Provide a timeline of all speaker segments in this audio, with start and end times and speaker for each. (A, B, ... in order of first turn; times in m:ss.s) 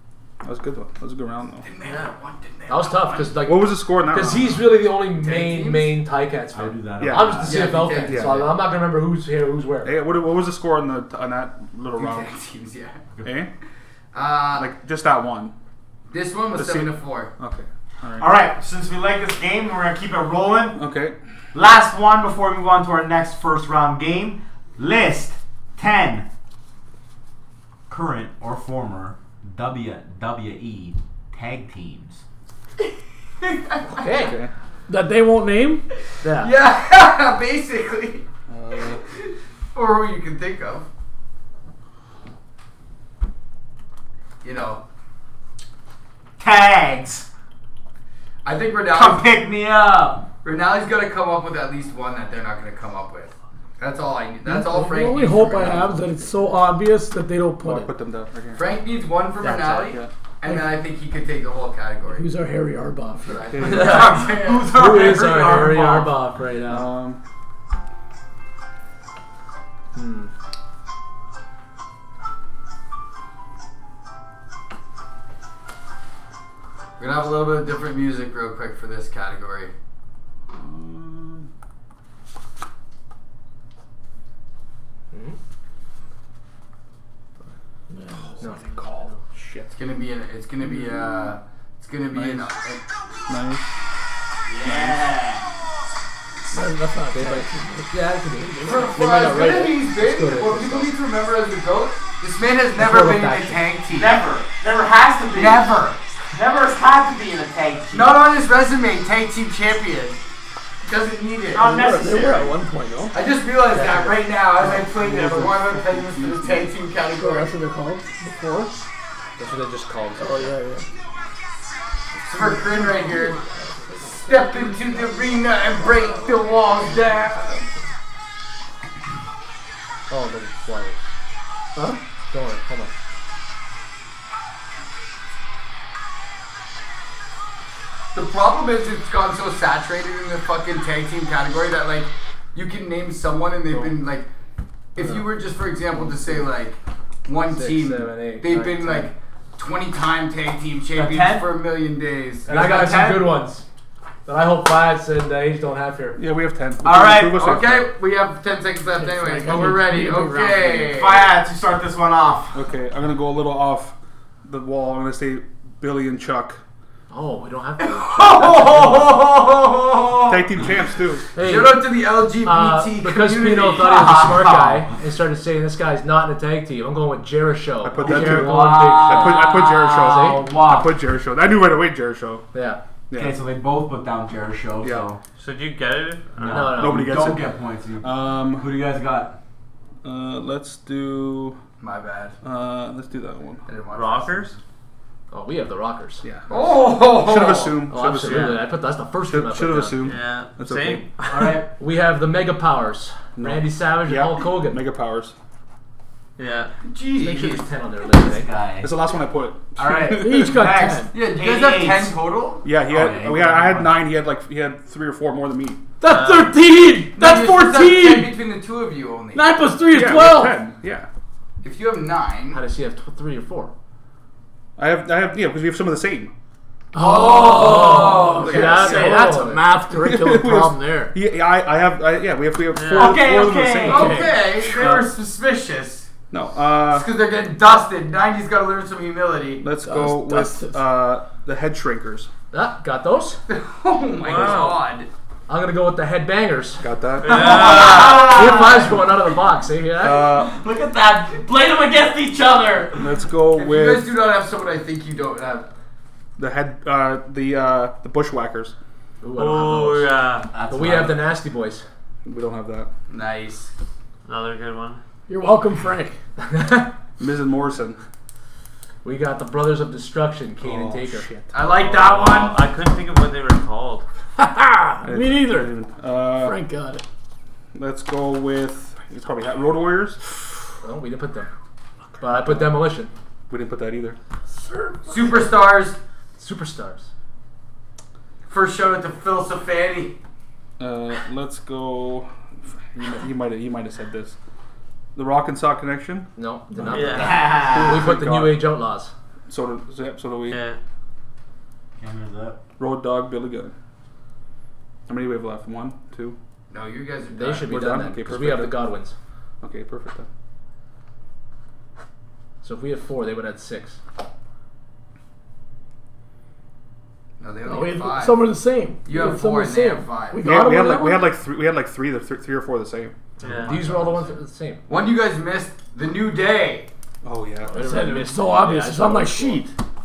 0:00.4-0:01.7 A
0:01.6-0:03.4 B
0:01.8-0:02.1 C
0:02.7-0:09.9 D
0:03.4-0:04.8 A
0:05.0-0:06.0 B
0:06.5-0:07.7 E
0:07.0-0:08.5 A
0:07.4-0:08.5 B
0:09.8-0:12.3 A
0:11.9-0:13.0 B
0:13.2-0:13.5 A
0:14.1-0:14.7 B
0:14.5-0:15.5 A
0:16.1-0:17.3 B
0:16.5-0:18.3 A
0:18.2-0:20.8 E
0:20.7-0:21.2 A
0:21.5-0:26.3 E
0:27.9-0:32.2 E
0:33.4-0:34.0 B
0:33.9-0:34.4 D
0:34.1-0:34.5 A
0:34.9-0:35.8 F
0:36.2-0:36.5 D
0:36.3-0:38.2 B
0:38.5-0:39.0 A
0:38.8-0:40.8 B
0:44.4-0:44.8 B
0:46.4-0:47.2 E
0:48.4-0:49.4 B
0:48.9-0:50.2 E
0:50.4-0:56.0 B
0:54.4-0:57.9 F
0:57.6-0:58.7 A
0:58.5-1:02.3 B
0:59.4-0:59.9 D
0:59.6-1:00.1 A
1:00.4-1:00.7 F
1:02.1-1:03.6 F
1:03.2-1:05.0 B
1:03.5-1:04.0 A
1:03.6-1:06.2 E
1:03.6-1:06.9 D
1:06.6-1:07.2 A
1:09.9-1:10.3 D
1:17.0-1:19.7 B
1:20.5-1:21.5 A
1:25.1-1:25.4 D
1:27.9-1:28.6 F
1:28.2-1:29.7 A
1:28.4-1:29.2 D
1:29.7-1:32.8 B
1:30.6-1:31.3 A
1:32.1-1:32.5 A
1:33.3-1:33.8 A
1:34.5-1:35.5 E
1:34.6-1:35.0 A
1:36.5-1:38.9 F
1:37.1-1:41.0 D
1:38.6-1:44.2 B
1:42.8-1:43.6 D
1:43.9-1:45.7 E
1:45.3-1:46.1 B
1:46.3-1:48.2 E
1:47.9-1:50.2 B
1:50.8-1:51.8 B
1:51.5-1:52.5 E
1:51.6-1:53.1 F
1:53.1-1:57.6 B
1:53.7-1:54.2 D
1:55.4-1:56.7 A
1:57.1-1:58.8 F
1:59.4-2:00.6 D
2:00.2-2:00.9 F
2:02.3-2:03.4 B
2:02.5-2:05.1 F
2:04.2-2:07.6 B
2:10.1-2:11.0 D
2:11.8-2:12.0 F
2:12.3-2:12.9 D
2:18.1-2:24.3 B
2:24.9-2:32.7 B
2:25.0-2:25.2 D
2:27.4-2:29.1 D
2:30.9-2:31.5 E
2:32.5-2:33.4 E
2:32.5-2:33.6 D
2:34.2-2:36.2 D
2:36.2-2:37.9 A
2:36.8-2:37.4 E
2:37.2-2:41.3 B
2:38.9-2:40.9 F
2:40.9-2:42.6 E
2:42.5-2:46.6 A
2:47.1-2:49.0 D
2:47.8-2:49.0 B
2:48.0-2:50.5 E
2:50.3-2:51.3 A
2:51.3-3:00.5 D
2:51.4-2:54.2 B
2:53.7-2:54.9 E
2:57.8-3:02.5 A
2:58.0-3:00.9 E
3:02.5-3:02.8 D
3:03.1-3:03.4 A
3:03.1-3:05.2 E
3:04.8-3:05.1 A
3:05.4-3:06.8 C
3:06.4-3:09.4 E
3:06.5-3:07.2 D
3:06.5-3:07.5 A
3:08.0-3:08.7 A
3:10.0-3:11.6 A
3:11.8-3:12.4 B
3:12.4-3:13.6 A
3:13.6-3:14.6 B
3:13.9-3:14.6 C
3:15.3-3:16.2 D
3:16.2-3:18.7 A
3:16.5-3:17.8 B
3:17.9-3:20.1 D
3:19.2-3:21.0 A
3:20.0-3:21.6 C
3:21.2-3:21.7 E
3:21.7-3:24.8 D
3:23.4-3:25.3 A
3:26.4-3:26.7 C
3:26.8-3:27.7 B
3:27.2-3:28.5 D
3:28.1-3:28.9 E
3:28.8-3:30.6 A
3:29.8-3:32.2 E
3:30.1-3:31.2 F
3:31.1-3:32.6 B
3:32.6-3:35.8 A
3:32.8-3:34.0 E
3:36.0-3:38.4 F
3:36.0-3:36.6 C
3:37.1-3:39.6 B
3:39.3-3:40.6 F
3:39.9-3:41.1 A
3:41.6-3:42.6 B
3:42.5-3:43.7 D
3:44.8-3:46.3 A
3:46.9-3:51.1 F
3:47.0-3:49.1 B
3:47.4-3:49.8 D
3:48.4-3:48.9 A
3:49.9-3:55.1 A
3:52.7-3:53.3 C
3:52.9-3:54.2 E
3:53.8-3:56.1 B
3:53.9-3:54.3 D
3:56.3-3:57.1 A
3:56.8-3:59.6 B
3:59.6-4:02.3 A
3:59.8-4:00.8 F
4:02.5-4:03.4 D
4:03.5-4:05.1 B
4:04.2-4:04.8 C
4:05.5-4:06.8 D
4:06.8-4:07.8 A
4:07.2-4:08.5 C
4:07.2-4:09.1 E
4:08.0-4:10.3 D
4:10.0-4:10.5 A
4:10.3-4:13.1 E
4:13.0-4:14.1 A
4:13.5-4:15.7 B
4:16.4-4:18.7 A
4:19.2-4:20.1 D
4:19.4-4:20.5 C
4:20.5-4:21.2 E
4:20.7-4:21.8 D
4:22.2-4:22.9 A
4:23.1-4:23.7 B
4:24.2-4:25.0 C
4:25.3-4:26.2 F
4:26.4-4:26.9 D
4:27.2-4:28.0 A
4:29.0-4:31.3 D
4:30.6-4:31.5 A
4:31.5-4:32.6 B
4:31.6-4:34.0 C
4:34.4-4:35.7 F
4:35.0-4:36.6 A
4:36.3-4:37.0 F
4:37.7-4:40.2 A
4:40.8-4:41.5 D
4:42.2-4:43.1 D
4:42.3-4:42.8 A
4:43.5-4:44.2 A
4:44.5-4:45.4 F
4:45.1-4:46.0 B
4:46.4-4:47.1 D
4:48.5-4:50.2 B
4:50.8-4:54.4 A
4:55.1-4:58.7 A
4:56.4-4:59.1 D
4:56.9-4:57.4 C
4:57.1-4:58.1 E
4:59.5-5:00.6 A
5:00.5-5:00.8 C
5:02.0-5:02.6 E
5:02.8-5:03.7 A
5:05.1-5:06.4 A
5:06.7-5:07.8 B
5:07.3-5:09.1 D
5:07.6-5:08.9 A
5:09.6-5:10.3 A
5:12.6-5:14.0 D
5:17.4-5:18.5 B
5:17.6-5:21.3 F
5:19.0-5:20.5 B
5:20.4-5:24.2 A
5:23.4-5:23.8 C
5:23.6-5:24.8 D
5:24.9-5:26.9 B
5:27.2-5:27.8 A
5:27.7-5:29.7 F
5:27.7-5:29.6 D